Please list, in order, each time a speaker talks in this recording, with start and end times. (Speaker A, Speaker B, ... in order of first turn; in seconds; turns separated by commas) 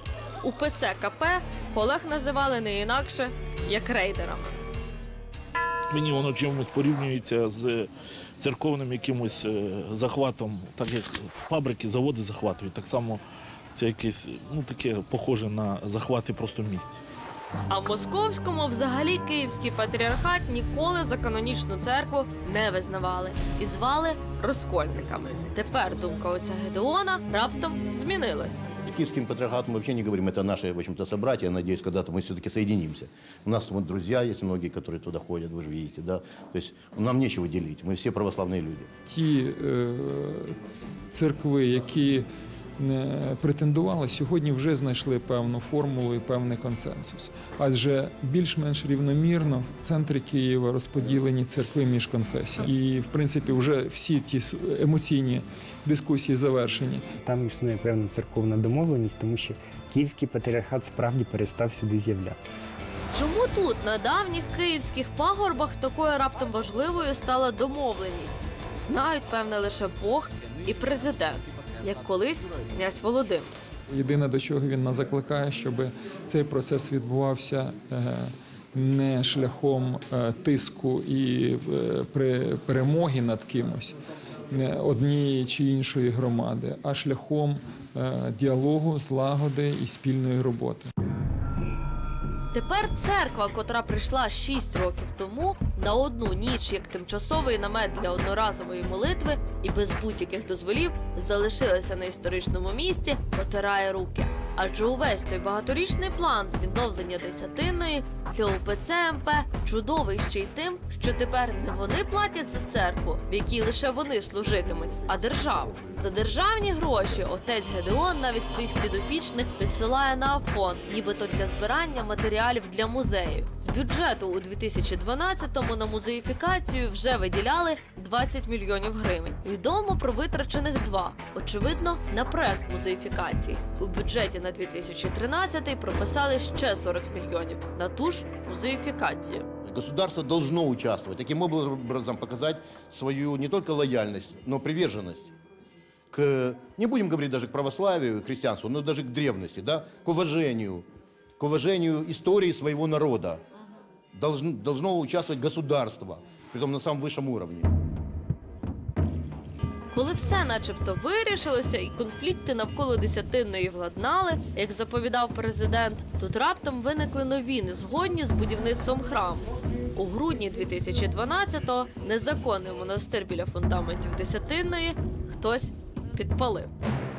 Speaker A: 0.4-4.5, Speaker B: 5.9-13.2, Speaker B: 13.7-17.0, Speaker A: 17.7-28.7, Speaker C: 28.8-38.9, Speaker D: 39.1-40.6, Speaker D: 41.1-42.2, Speaker D: 42.8-57.1, Speaker E: 57.2-62.4, Speaker A: 63.1-73.5, Speaker D: 73.9-84.0, Speaker D: 84.5-90.9, Speaker A: 92.5-139.5, Speaker C: 139.6-145.3, Speaker C: 146.1-150.8, Speaker C: 151.4-153.4, Speaker C: 154.1-157.7, Speaker A: 159.9-176.7